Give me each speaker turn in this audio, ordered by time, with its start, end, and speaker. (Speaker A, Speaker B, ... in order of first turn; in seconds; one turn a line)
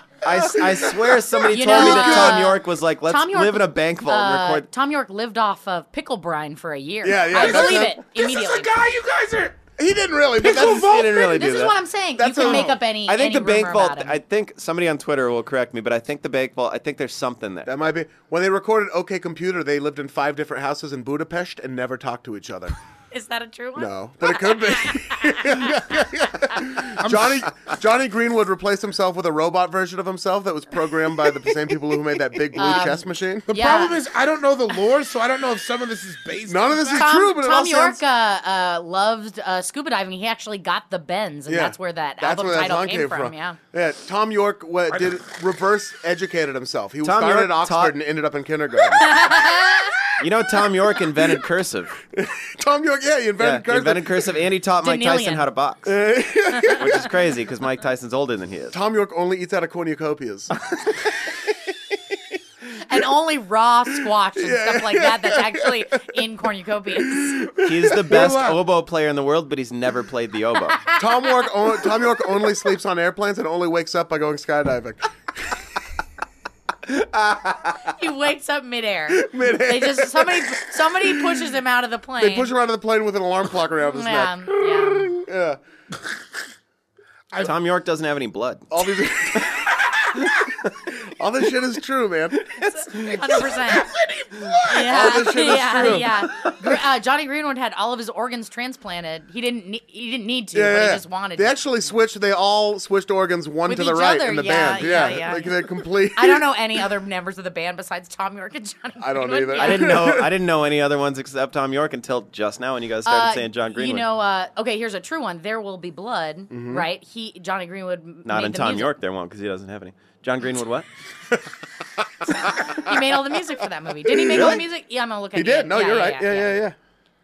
Speaker A: 0.2-4.7
Speaker B: 0.6-0.9
Speaker C: 1.5-8.7
Speaker D: 1.5-2.5
Speaker D: 7.0-8.0
Speaker B: 7.3-9.6
Speaker D: 9.8-12.8
Speaker B: 10.4-11.4
Speaker C: 11.0-14.2
Speaker A: 13.0-17.7
Speaker D: 17.6-22.7
Speaker C: 23.1-25.8
Speaker D: 23.8-33.5
Speaker B: 25.9-26.3
Speaker B: 26.8-27.4
Speaker C: 32.5-34.0
Speaker B: 33.5-37.1
Speaker D: 36.5-38.0
Speaker C: 36.9-43.6
Speaker D: 41.5-49.4
Speaker A: 47.0-48.0
Speaker C: 49.0-50.0
Speaker A: 50.2-52.0
Speaker D: 52.1-54.4
Speaker A: 53.4-55.9
Speaker C: 54.8-55.5
Speaker D: 55.9-57.1
Speaker A: 56.7-58.7
Speaker D: 58.7-60.5
Speaker C: 62.9-67.4
Speaker D: 64.3-66.2
Speaker D: 67.0-68.2
Speaker A: 67.6-70.8
Speaker B: 68.1-68.6
Speaker C: 70.7-71.5
Speaker D: 71.0-75.6
Speaker C: 77.9-82.5
Speaker D: 79.1-81.5
Speaker D: 82.2-85.6
Speaker C: 83.8-85.1
Speaker A: 87.4-88.7
Speaker D: 88.7-89.8
Speaker D: 90.8-92.5
Speaker C: 92.7-93.9
Speaker B: 93.3-95.2
Speaker C: 94.7-101.6
Speaker D: 94.7-96.5
Speaker D: 100.5-106.5
Speaker C: 103.7-110.1
Speaker D: 109.0-110.3
Speaker A: 109.6-114.0
Speaker C: 113.0-118.9
Speaker D: 116.5-116.8
Speaker A: 118.2-120.9
Speaker C: 122.6-126.6
Speaker D: 124.0-124.6
Speaker A: 124.3-124.6
Speaker D: 125.3-126.8